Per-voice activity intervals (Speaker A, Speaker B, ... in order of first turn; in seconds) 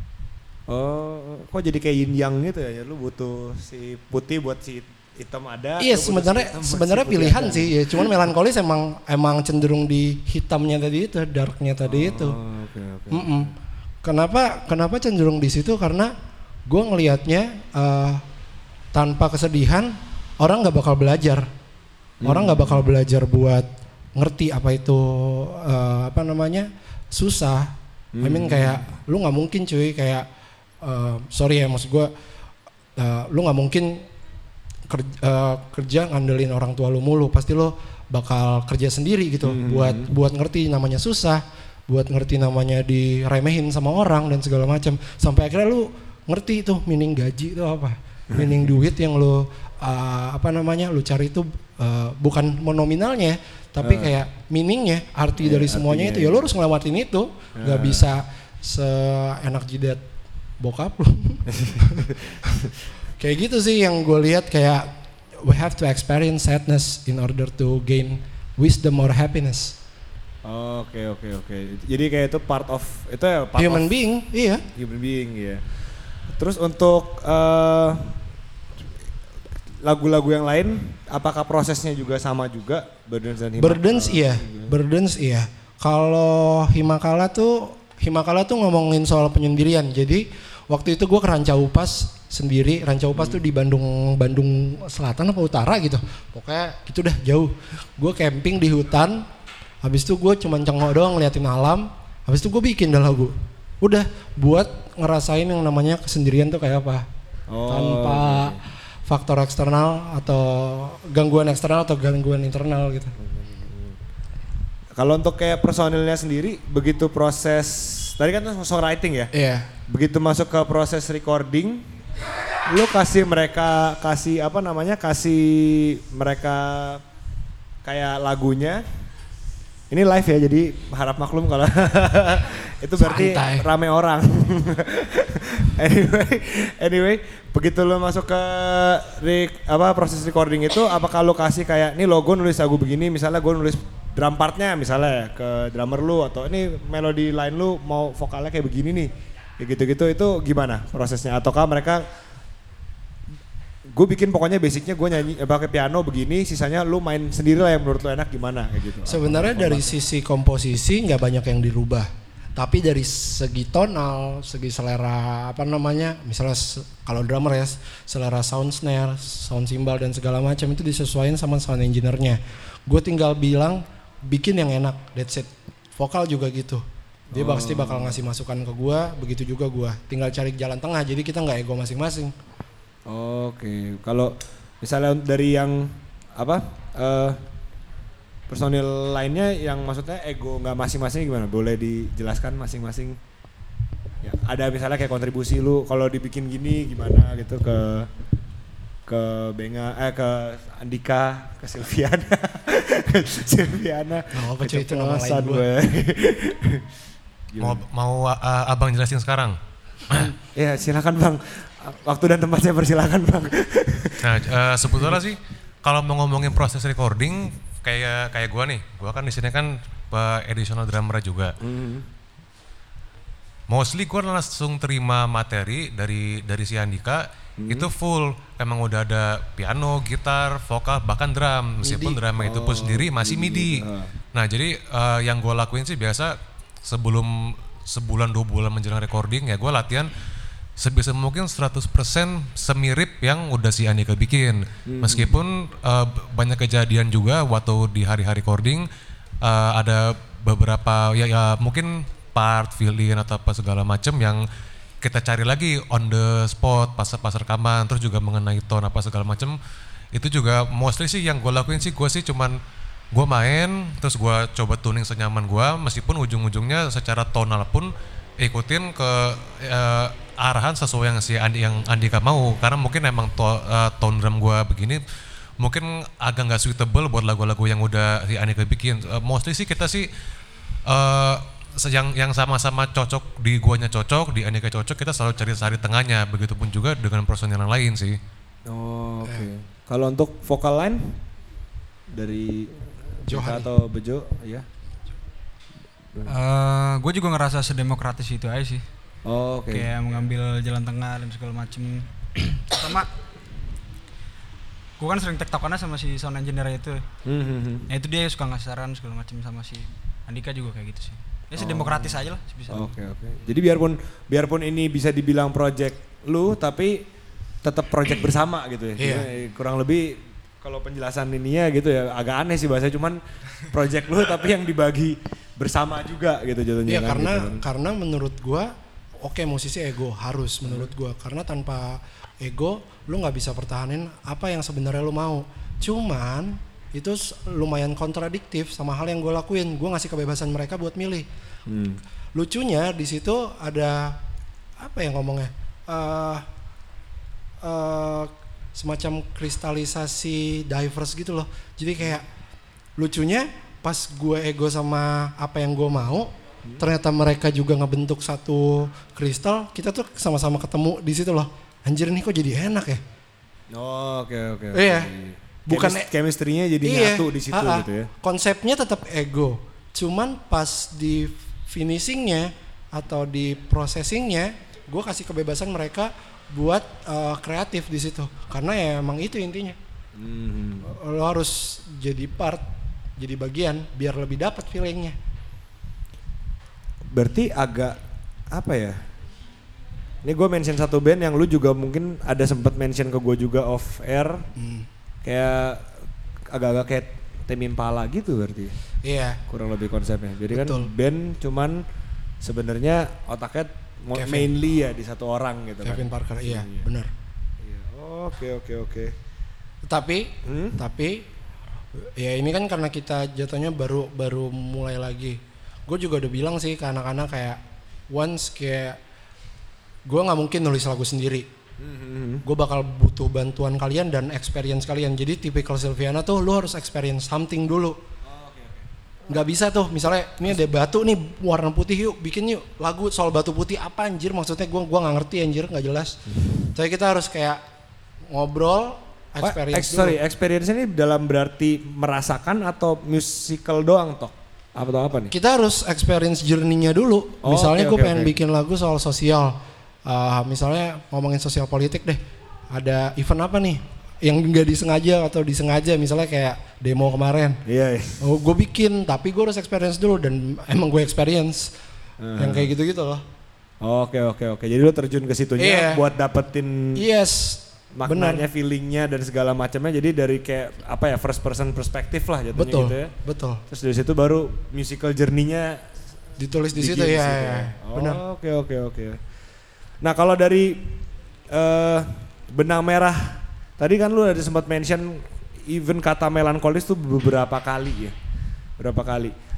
Speaker A: 0.7-8.1, 11.8-13.5, 22.2-22.9, 28.1-28.9, 39.4-40.1, 53.8-54.1, 55.4-56.5, 57.6-58.1, 61.5-62.3, 70.4-73.9, 74.8-75.6, 76.3-78.2, 79.8-84.7, 93.1-93.4, 107.5-108.6, 113.2-114.0, 115.0-119.3, 119.9-121.9, 122.6-127.0, 127.8-128.8, 129.9-152.0, 153.9-160.0, 177.3-178.2, 183.1-187.4, 188.5-193.2, 194.2-198.1, 199.1-206.9, 207.5-207.8, 210.5-215.2, 221.6-222.1, 227.6-227.9, 232.3-234.1, 244.9-245.4, 288.6-291.2, 292.1-294.7, 299.2-300.2, 307.2-307.9, 311.6-317.0, 317.6-327.6, 330.6-330.9, 341.7-342.0, 363.7-368.1, 380.1-380.9, 387.1-388.0, 388.5-389.0, 390.2-394.5, 395.2-395.9, 396.5-398.7, 399.5-401.8, 402.4-406.9, 407.6-409.1, 410.4-410.8, 421.8-422.4, 428.2-428.9, 439.4-445.3, 447.4-448.3, 457.6-458.2, 462.2-462.7, 463.8-467.0, 467.9-473.1, 473.7-476.0, 476.7-479.2, 480.0-480.9, 481.5-488.1, 488.8-489.3
Speaker B: 5.8-12.4, 13.1-13.5, 14.0-16.1, 16.7-18.2, 18.9-21.5, 22.2-30.3, 30.8-32.1, 33.0-34.0, 34.9-60.0, 60.6-62.1, 63.2-64.9, 65.4-69.8, 73.6-74.6, 83.6-99.2, 99.8-107.0, 107.7-113.1, 119.3-119.7, 133.0-133.7, 159.1-182.3, 204.3-205.7, 231.8-232.2, 293.3-293.7, 319.0-319.3, 326.9-328.7, 329.2-341.3, 342.3-344.2, 344.8-346.4, 347.6-352.2, 353.0-363.0, 364.7-365.1, 365.7-366.1, 366.8-379.8, 380.8-382.6, 383.2-385.1, 394.6-394.9, 399.0-399.4, 400.5-400.9, 404.1-404.5, 405.8-407.1, 409.9-411.2, 412.1-419.0, 420.1-421.5, 422.4-428.0, 429.3-436.2, 436.7-437.6, 438.3-440.2, 445.3-457.6, 458.2-461.7, 462.4-463.2, 465.6-466.0, 466.9-468.4, 472.5-473.6, 476.4-478.2
Speaker C: 207.6-209.6, 214.2-221.5, 223.7-240.2, 240.8-248.9, 249.4-254.4, 255.0-259.6, 260.1-262.6, 263.1-275.0, 275.6-280.1, 280.9-288.2
Speaker D: 296.2-298.8, 299.7-303.1, 305.0-307.0, 307.9-313.0